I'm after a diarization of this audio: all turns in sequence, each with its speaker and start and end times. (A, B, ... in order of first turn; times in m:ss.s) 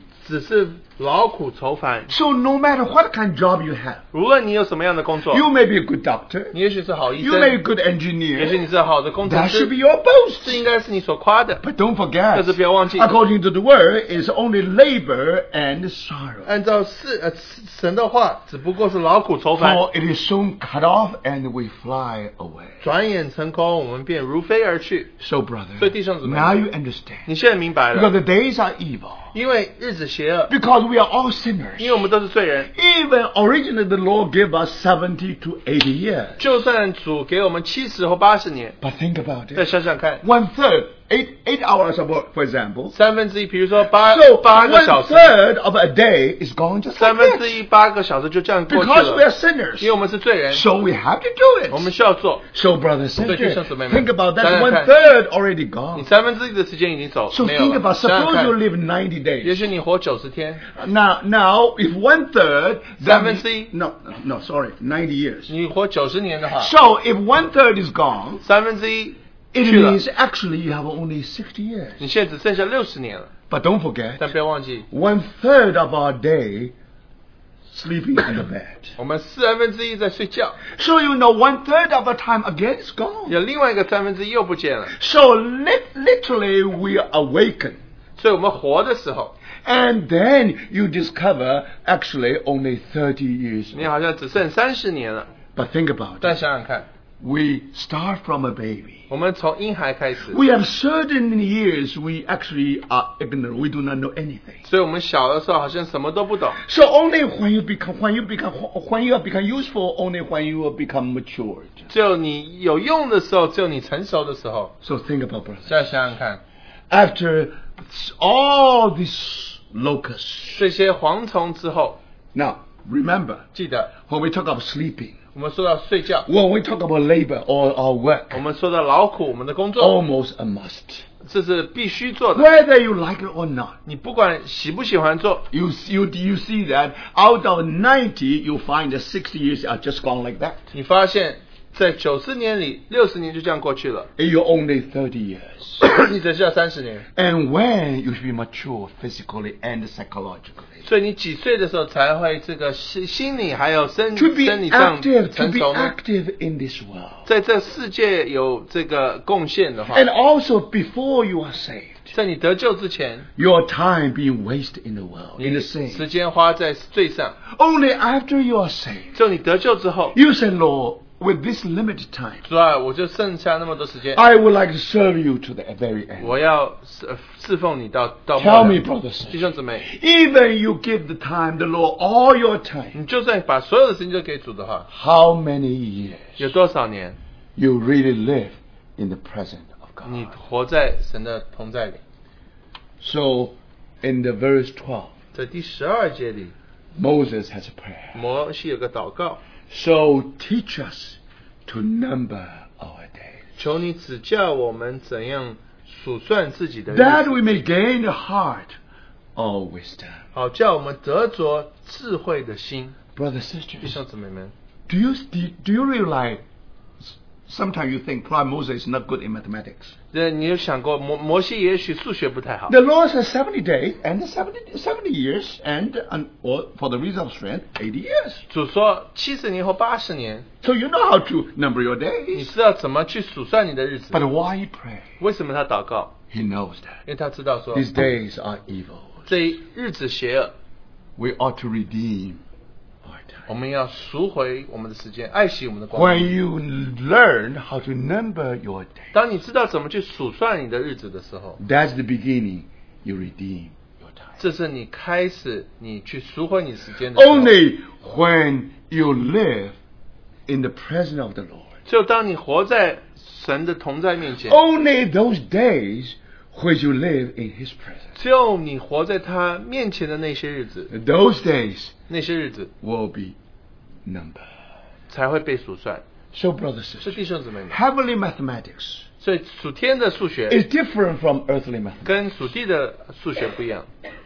0:00.2-0:02.1 A
0:02.1-0:04.0 B
0:04.1-0:05.4 A
0:05.3-0:06.6 B
0:06.5-0:07.6 A
0:07.2-0:08.6 B
0:08.4-0:09.7 A
0:09.2-0:10.6 B
0:10.4-0:11.6 A
0:11.6-0:16.5 B
0:12.3-0:13.1 A
0:16.5-0:19.8 A
0:19.6-0:22.8 B
0:22.8-0:25.1 A
0:25.2-0:27.3 B
0:25.8-0:26.6 A
0:27.3-0:28.1 A
0:27.9-0:29.3 B
0:29.3-0:30.5 A
0:30.5-0:32.0 B
0:31.8-0:32.7 A
0:32.7-0:36.4 B
0:36.4-0:38.8 A
0:38.8-0:43.0 B
0:39.6-0:40.2 A
0:42.9-0:45.4 A
0:43.9-0:47.5 B
0:47.0-0:49.2 A
0:48.7-0:49.9 B
0:49.8-0:50.6 A
0:50.5-0:51.9 B
0:51.7-0:52.4 A
0:52.5-0:56.1 B
0:53.2-0:54.9 A
0:56.0-0:58.6 A
0:57.3-0:59.7 B
0:59.4-1:00.7 A
1:00.7-1:05.5 B
1:03.0-1:03.7 A
1:05.5-1:06.7 A
1:06.6-1:08.4 B
1:08.4-1:10.0 A
1:09.5-1:12.0 B
1:12.0-1:13.3 A
1:13.5-1:14.3 B
1:14.2-1:14.9 A
1:14.9-1:16.7 B
1:17.7-1:19.0 B
1:19.0-1:20.6 A
1:20.7-1:23.4 B
1:23.3-1:24.9 A
1:24.9-1:27.8 B
1:28.2-1:29.4 A
1:29.6-1:33.9 B
1:33.7-1:35.3 A
1:35.6-1:36.4 B
1:36.2-1:36.9 A
1:37.2-1:39.1 B
1:39.1-1:40.4 A
1:40.3-1:44.6 B
1:44.6-1:46.6 A
1:46.6-1:51.9 B
1:51.9-1:54.7 A
1:54.8-1:55.8 B
1:55.7-1:56.4 A
1:56.9-2:00.6 B
2:00.6-2:02.0 A
2:02.3-2:05.2 B
2:03.5-2:03.9 A
2:05.4-2:06.3 A
2:06.3-2:08.4 B
2:08.3-2:10.0 A
2:09.8-2:11.0 B
2:11.2-2:12.5 A
2:12.3-2:13.8 B
2:13.8-2:15.5 A
2:15.5-2:20.6 B
2:20.7-2:24.1 A
2:24.2-2:25.8 B
2:25.8-2:27.1 A
2:27.2-2:30.8 B
2:30.8-2:36.0 A
2:34.2-2:37.3 B
2:37.3-2:40.0 A
2:39.9-2:42.1 B
2:42.1-2:43.3 A
2:43.4-2:46.1 B
2:45.4-2:47.4 A
2:47.5-2:49.1 B
2:49.1-2:50.2 A
2:50.1-2:52.4 B
2:52.4-2:54.2 A
2:54.1-2:56.4 B
2:56.2-2:59.9 A
2:58.4-3:03.0 B
3:02.9-3:04.9 A
3:04.9-3:06.5 B
3:06.4-3:07.2 A
3:07.6-3:10.3 B
3:10.0-3:12.0 A
3:13.0-3:15.1 B
3:15.3-3:16.5 A
3:17.0-3:18.2 B
3:18.1-3:19.4 A
3:19.7-3:23.5 B
3:23.6-3:27.4 A
3:26.9-3:28.8 B
3:29.4-3:30.2 B
3:30.3-3:33.0 A
3:33.2-3:34.0 B
3:33.8-3:34.5 A
3:34.9-3:36.4 B
3:37.0-3:39.9 B
3:40.1-3:42.8 A
3:42.7-3:48.4 B
3:48.5-3:50.5 A
3:50.6-3:52.5 B
3:52.3-3:54.2 A
3:54.1-3:55.1 B
3:55.2-3:56.1 A
3:56.3-3:57.0 B
3:57.1-3:57.9 A
3:57.7-3:59.3 B
3:59.3-4:00.5 A
4:01.2-4:02.4 B
4:03.0-4:03.5 B
4:03.5-4:06.4 A
4:05.9-4:09.1 B
4:09.1-4:11.6 A
4:11.6-4:14.3 B
4:14.4-4:17.6 A
4:17.1-4:19.8 B
4:20.5-4:21.7 B
4:21.9-4:24.6 A
4:24.4-4:28.1 B
4:28.2-4:30.9 A
4:30.9-4:32.0 B
4:32.1-4:32.7 A
4:32.8-4:33.4 B
4:34.0-4:34.5 B
4:35.1-4:36.0 A
4:36.3-4:39.1 B
4:37.0-4:37.8 A
4:39.2-4:40.6 A
4:40.5-4:42.1 B
4:42.0-4:43.9 A